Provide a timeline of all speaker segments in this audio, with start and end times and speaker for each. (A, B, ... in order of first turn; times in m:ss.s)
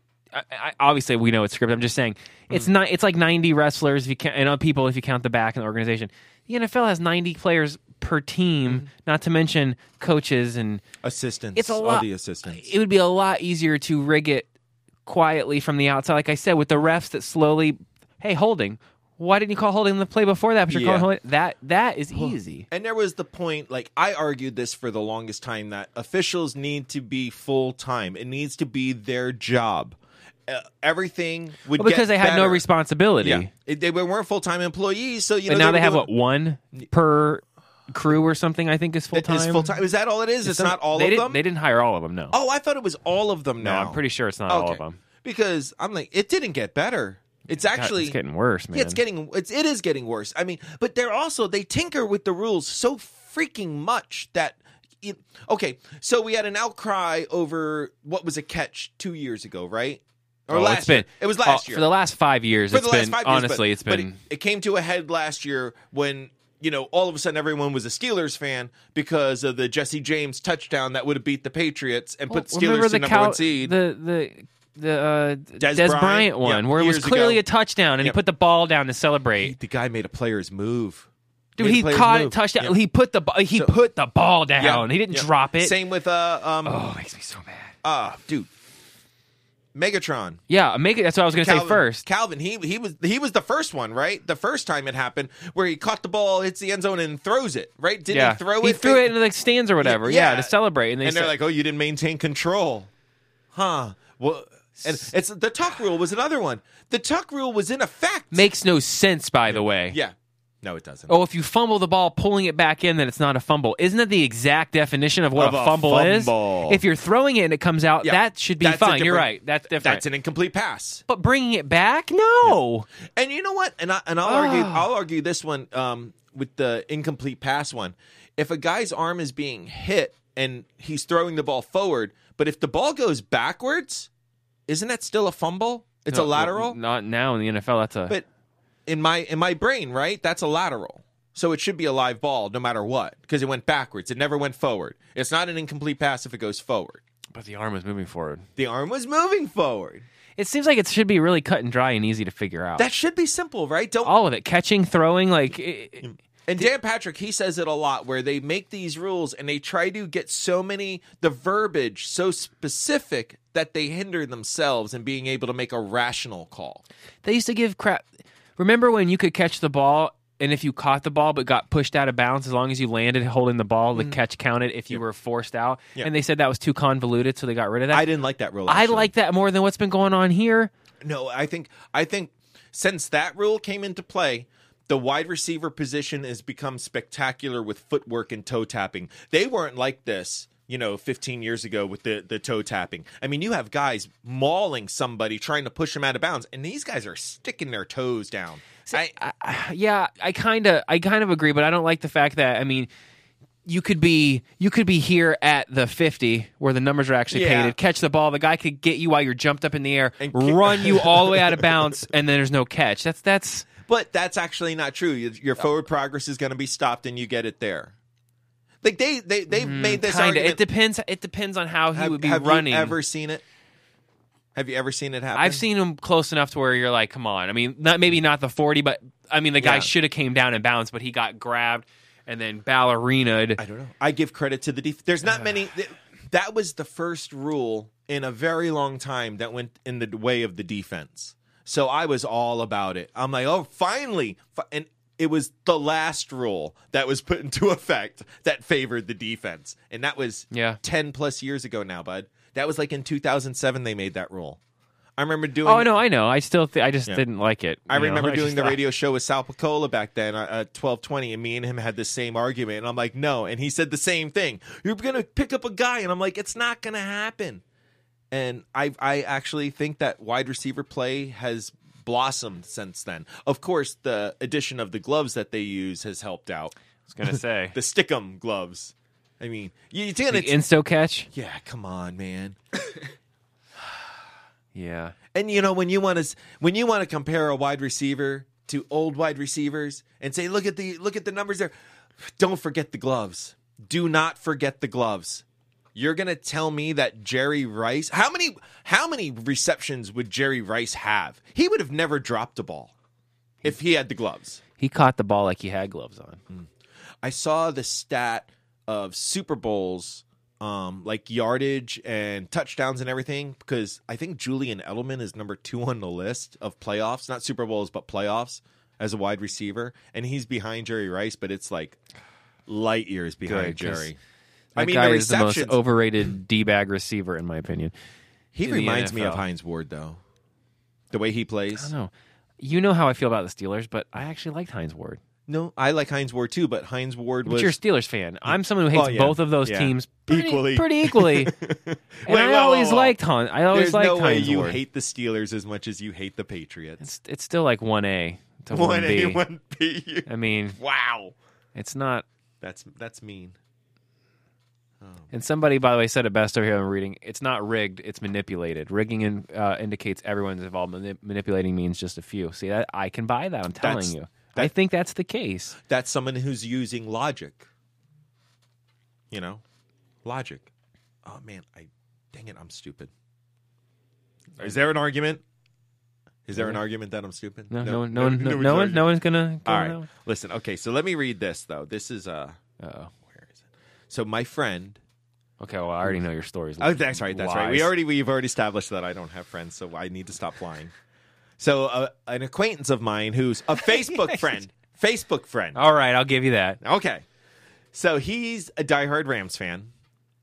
0:00.3-0:10.8 A
0:11.0-0:12.6 B
0:11.6-0:14.5 A
0:15.1-0:22.7 A
0:20.7-0:21.1 B
0:22.1-0:32.6 B
0:31.7-0:33.5 A
0:33.2-0:36.1 B
0:35.5-0:39.7 A
0:39.1-0:41.4 B
0:40.4-0:42.3 A
0:42.3-0:48.2 B
0:43.6-0:45.0 A
0:47.7-0:49.0 A
0:48.7-1:01.9 B
1:00.5-1:04.2 A
1:02.7-1:13.8 B
1:12.3-1:19.6 A
1:15.6-1:17.4 B
1:19.4-1:22.8 B
1:21.6-1:25.8 A
1:24.6-1:26.8 B
1:26.6-1:27.7 A
1:27.8-1:28.5 B
1:29.8-1:30.4 B
1:30.5-1:32.1 A
1:31.3-1:39.1 B
1:38.1-1:41.4 A
1:39.8-1:42.9 B
1:43.5-1:48.5 B
1:44.8-1:45.1 A
1:48.3-1:50.0 A
1:49.5-1:51.1 B
1:51.1-2:00.0 A
1:55.4-1:56.8 B
1:58.0-2:01.0 B
2:01.1-2:02.9 A
2:03.2-2:14.1 B
2:04.2-2:04.9 A
2:14.7-2:16.8 B
2:16.1-2:18.2 A
2:18.9-2:27.0 B
2:27.3-2:28.5 A
2:28.6-2:30.0 B
2:30.4-2:32.9 A
2:32.8-2:34.1 B
2:34.0-2:36.7 A
2:36.0-2:46.8 B
2:47.2-2:58.1 A
2:57.9-2:59.1 B
2:58.7-3:00.7 A
3:01.0-3:19.2 B
3:18.9-3:22.9 A
3:23.7-3:33.7 A
3:27.3-3:27.8 B
3:30.2-3:31.8 B
3:33.8-3:37.9 B
3:38.8-3:40.6 B
3:39.5-3:43.0 A
3:41.9-3:43.4 B
3:44.6-3:45.6 B
3:45.3-3:53.6 A
3:49.6-3:49.9 B
3:53.6-4:14.6 B
4:10.5-4:10.8 A
4:15.2-4:15.9 B
4:15.6-4:18.8 A
4:17.9-4:27.6 B
4:28.3-4:36.7 B
4:37.1-4:37.8 A
4:37.3-4:40.6 B
4:40.3-4:41.3 A
4:41.3-4:43.1 B
4:44.7-4:45.2 A
4:45.3-4:55.4 B
4:56.0-5:02.9 B
5:03.6-5:04.6 B
5:04.8-5:06.4 A
5:07.2-5:22.0 B
5:22.7-5:24.2 B
5:23.4-5:24.1 A
5:24.8-5:27.9 A
5:24.8-5:25.8 B
5:28.5-5:30.2 B
5:28.6-5:29.4 A
5:31.1-5:31.9 B
5:31.8-5:35.2 A
5:35.5-5:37.8 B
5:37.5-5:41.5 A
5:38.5-5:43.2 B
5:42.3-5:44.8 A
5:43.7-5:47.1 B
5:47.0-5:49.4 A
5:48.7-5:51.4 B
5:50.3-5:50.8 A
5:51.8-5:52.2 A
5:52.6-5:53.6 B
5:55.0-5:55.3 B
5:55.3-6:05.8 A
6:03.8-6:04.7 B
6:05.8-6:07.7 B
6:09.3-6:09.6 B
6:10.2-6:10.7 B
6:11.2-6:13.1 B
6:14.6-6:15.4 B
6:16.5-6:19.1 B
6:16.6-6:16.8 A
6:17.7-6:20.1 A
6:19.6-6:22.6 B
6:22.8-6:23.1 A
6:23.3-6:25.0 B
6:25.6-6:27.9 A
6:26.8-6:30.9 B
6:31.6-6:35.8 B
6:33.8-6:34.5 A
6:35.8-6:36.8 A
6:36.8-6:37.2 B
6:37.9-6:39.9 B